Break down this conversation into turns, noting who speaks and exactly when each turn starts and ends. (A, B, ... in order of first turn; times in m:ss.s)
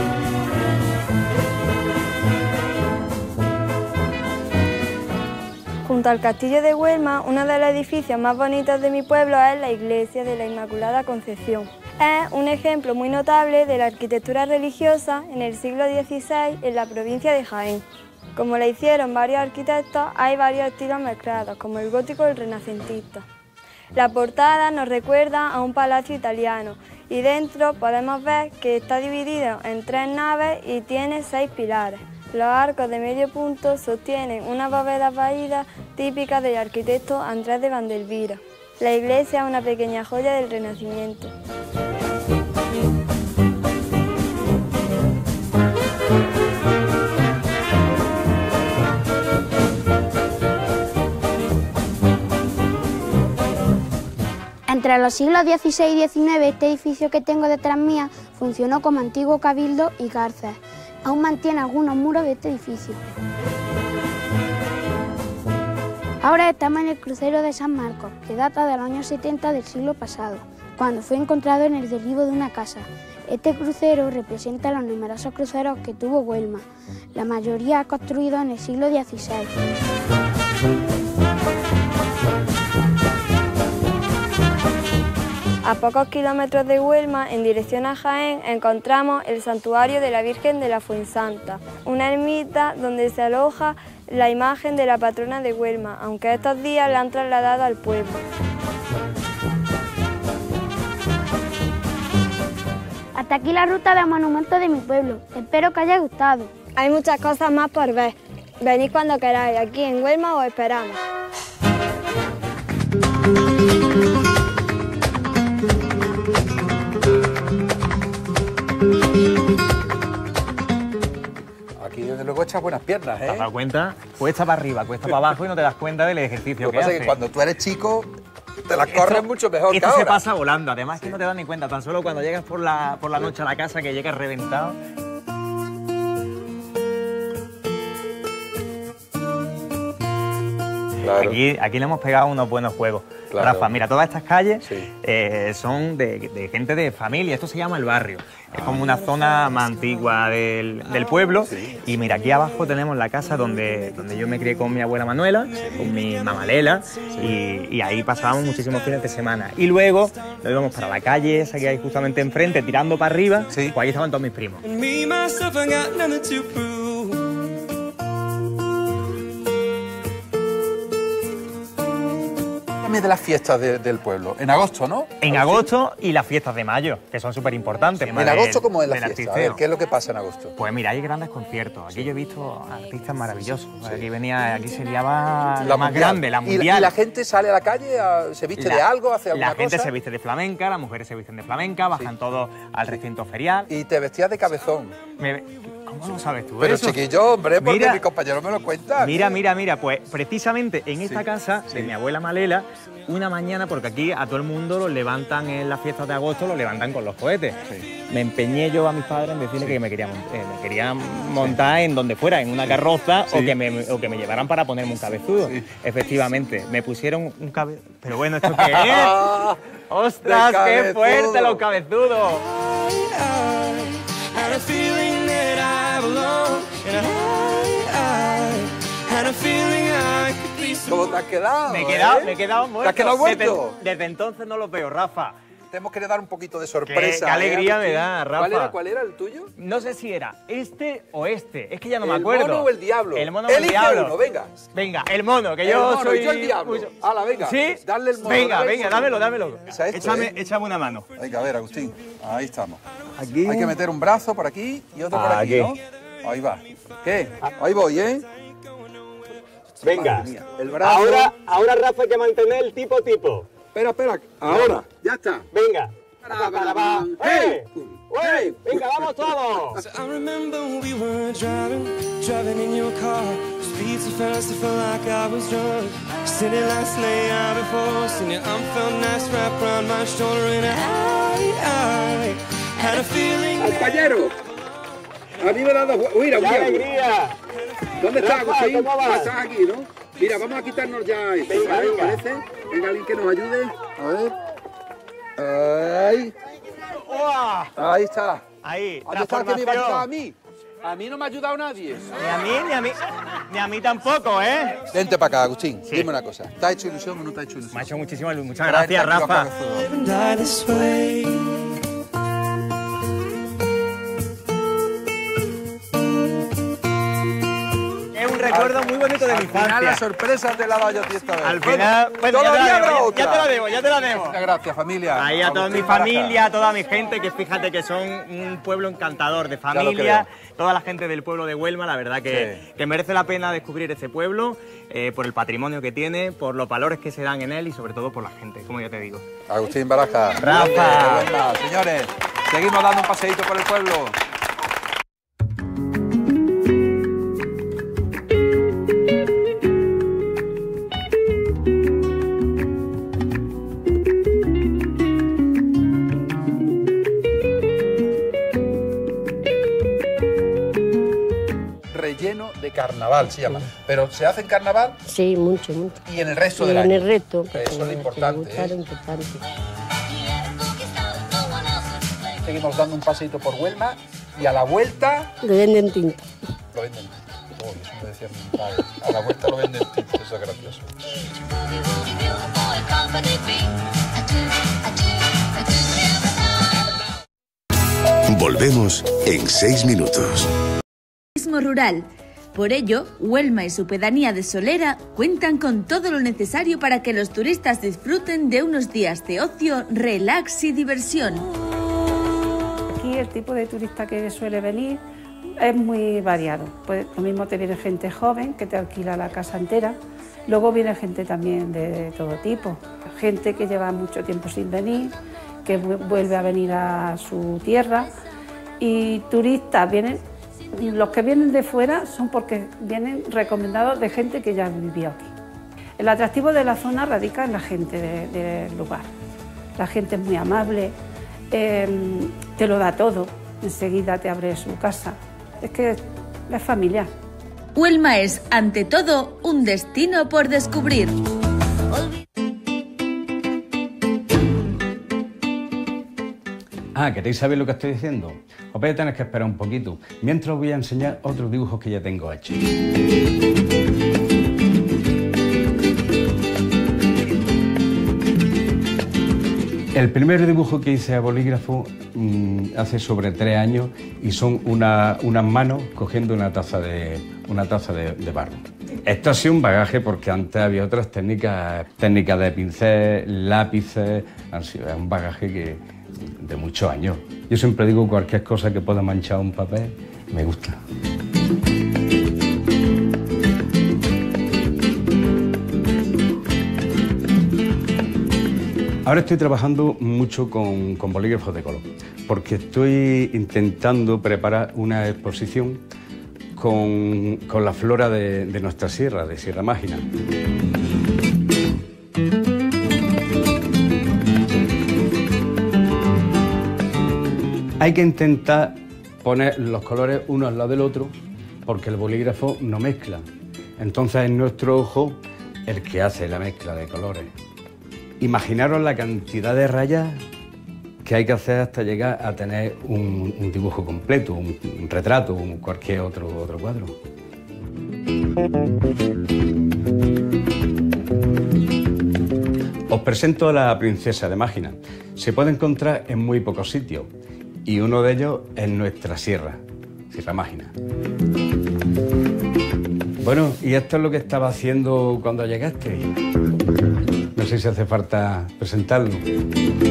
0:05.8-0:17.8 A
0:18.4-0:23.2 A
0:23.9-0:41.3 A
0:54.7-1:03.0 B
1:06.2-1:19.5 B
1:25.6-1:38.2 A
1:43.2-1:46.5 B
1:46.8-1:51.0 A
2:01.8-2:03.5 C
2:03.2-2:07.2 D
2:05.0-2:05.3 C
2:06.6-2:08.1 C
2:08.7-2:10.2 C
2:08.9-2:14.8 D
2:21.0-2:21.4 C
2:21.1-2:44.6 D
2:23.3-2:23.7 C
2:28.5-2:29.0 C
2:31.4-2:31.8 C
2:43.5-2:43.8 C
2:44.6-2:47.2 E
2:52.8-2:55.6 C
2:55.2-2:59.6 D
2:58.0-3:00.5 C
3:00.6-3:06.9 D
3:03.8-3:04.0 C
3:05.6-3:09.9 C
3:08.6-3:13.7 D
3:13.7-3:14.9 C
3:15.2-3:17.0 D
3:16.6-3:19.3 C
3:17.6-3:18.0 D
3:19.0-3:39.2 D
3:21.0-3:21.9 C
3:38.5-3:39.6 C
3:39.9-3:42.4 D
3:40.2-3:41.6 C
3:42.5-3:51.1 E
3:50.8-3:53.8 C
3:51.7-3:55.4 D
3:55.7-3:59.5 C
3:56.8-3:58.7 D
3:59.6-4:04.1 D
4:02.0-4:04.6 C
4:04.7-4:06.9 D
4:05.6-4:09.2 C
4:07.4-4:11.1 D
4:09.7-4:10.3 C
4:11.2-4:12.8 C
4:13.2-4:13.7 D
4:13.4-4:18.2 C
4:15.1-4:15.7 D
4:19.8-4:21.3 C
4:19.9-4:20.3 D
4:20.8-4:23.5 D
4:23.7-4:25.5 C
4:24.5-4:24.8 D
4:25.5-4:27.6 D
4:26.2-4:29.8 C
4:28.1-4:29.8 D
4:29.8-4:44.1 E
4:43.6-4:44.3 C
4:45.4-4:46.9 C
4:46.4-4:46.8 E
4:48.0-4:54.3 C
4:48.2-4:49.1 E
4:55.4-4:56.3 C
4:57.0-4:57.7 D
4:57.8-4:58.4 C
4:58.6-5:00.0 D
4:59.0-5:02.2 C
5:02.1-5:04.8 D
5:04.9-5:08.0 C
5:07.7-5:09.5 D
5:08.6-5:09.9 C
5:09.8-5:11.6 E
5:18.1-5:20.0 D
5:18.5-5:26.4 C
5:21.4-5:24.4 D
5:25.2-5:39.2 D
5:29.7-5:30.3 C
5:32.3-5:32.6 C
5:39.5-5:44.2 C
5:40.4-5:41.3 D
6:01.9-6:05.0 C
6:05.1-6:06.0 F
6:06.1-6:08.7 C
6:06.6-6:09.4 F
6:12.4-6:15.3 C
6:15.4-6:16.2 F
6:16.7-6:20.9 C
6:28.3-6:30.5 G
6:31.4-6:41.4 H
6:43.0-6:45.0 I
6:45.6-6:50.0 I
6:50.5-6:55.1 I
6:55.6-6:58.1 I
6:58.8-7:00.2 I
7:00.7-7:05.3 I
7:06.0-7:09.1 I
7:09.8-7:10.9 I
7:11.5-7:17.1 I
7:17.7-7:21.1 H
7:27.0-7:32.7 J
7:39.9-7:55.8 J
7:56.4-8:00.8 J
8:09.0-8:15.8 J
8:16.6-8:20.0 J
8:27.8-8:31.1 J
8:31.6-8:33.2 J
8:33.8-8:37.3 J
8:38.2-8:40.2 J
8:41.0-8:47.0 J
8:52.9-8:57.1 J
8:57.6-9:00.7 J
9:03.2-9:06.1 J
9:07.4-9:09.2 J